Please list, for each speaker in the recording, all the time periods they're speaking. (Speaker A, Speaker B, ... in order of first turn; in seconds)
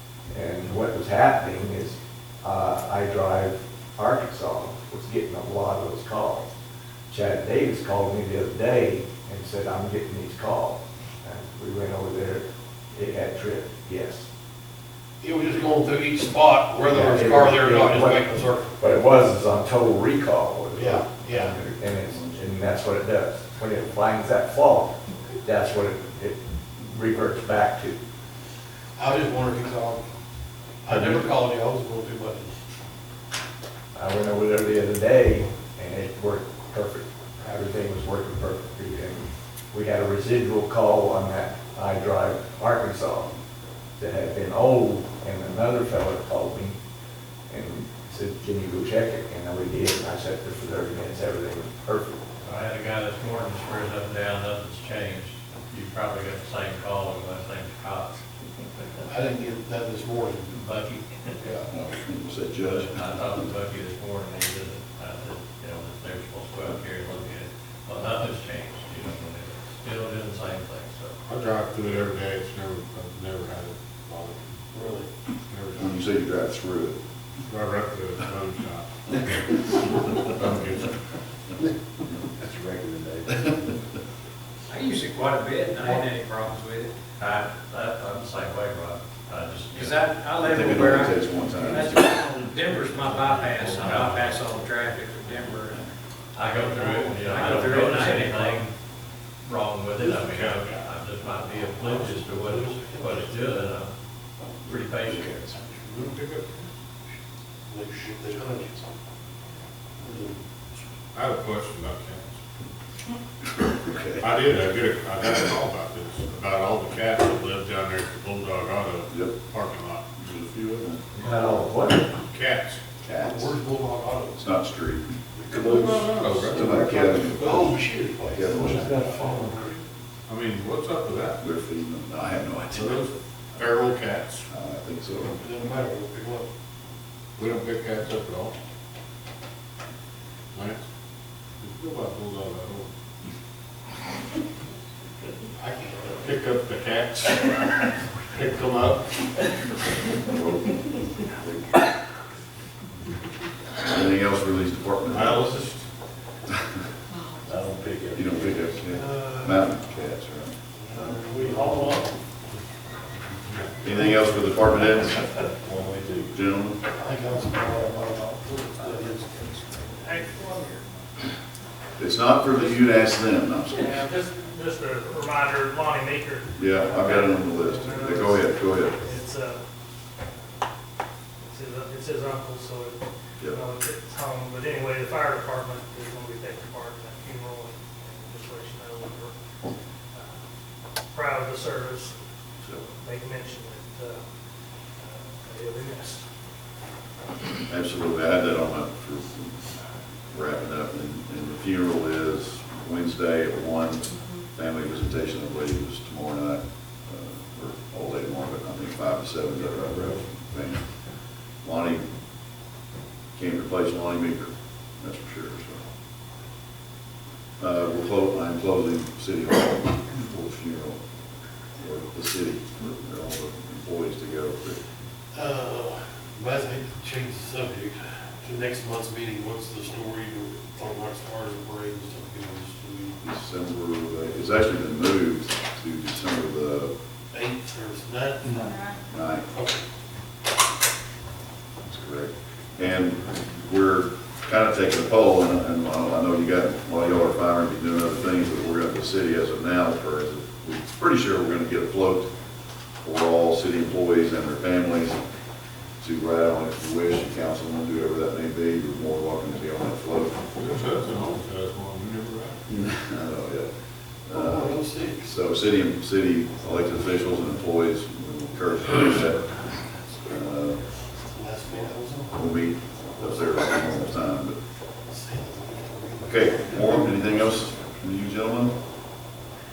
Speaker A: 0.3-6.5, 7.1-14.3, 16.9-28.0, 30.9-31.2, 33.9-43.3, 44.0-46.8, 47.5-52.2, 82.4-83.6, 121.2-122.1, 125.7-126.0, 126.5-127.2, 128.5-129.7
Speaker B: 15.2-18.8, 20.7-21.5, 28.9-30.0, 30.8-32.6, 59.0-60.6, 74.7-75.1, 101.8-103.3, 107.7-108.9, 110.0-110.8, 123.2-124.5, 125.3-129.8, 135.2-136.5, 145.6-146.2, 158.9-159.7, 160.8-162.2, 165.6-166.1, 166.9-169.3, 225.3-233.2, 237.3-238.7, 239.5-239.8, 264.3-265.4, 271.2-272.6, 273.1-274.0, 275.1-277.8
Speaker C: 22.1-22.4, 61.4-63.4, 75.8-77.0, 90.4-92.1, 105.0-105.6, 113.6-114.2, 119.1-119.4, 123.0-123.6, 124.3-125.1, 126.5-129.1, 131.4-133.1, 134.5-135.4, 150.3-150.8, 153.8-155.5, 158.1-161.2, 163.8-165.4, 166.3-166.8, 172.0-173.9, 176.6-178.9, 197.7-199.7, 200.3-210.9, 211.6-212.0, 213.3-215.8, 217.6-221.0, 221.8-224.8, 233.2-236.9, 238.6-239.5, 241.8-252.3, 253.0-255.2, 256.0-260.4, 262.7-263.7, 264.2-269.6, 270.2-270.8, 272.3-274.6, 276.2-278.8
Speaker D: 52.4-58.2, 60.9-61.3, 62.6-71.2, 87.2-90.1, 92.7-94.7, 96.3-98.7, 99.4-103.9, 104.6-105.6
Speaker E: 71.2-74.6, 75.5-75.9, 77.4-79.2, 80.3-80.9, 100.0-100.8, 105.8-106.7, 111.1-112.4, 114.2-121.0, 122.2-122.8, 125.5-126.9, 130.3-131.4, 132.8-134.5, 137.3-138.5, 140.5-140.8, 141.6-142.9, 146.1-149.5, 155.1-155.8, 260.6-262.6
Speaker F: 84.7-86.9, 89.7-95.8, 97.2-98.6
Speaker G: 170.0-170.8, 173.7-179.6, 180.2-180.7, 181.4-189.4, 190.1-190.5, 191.1-194.3, 194.9-196.3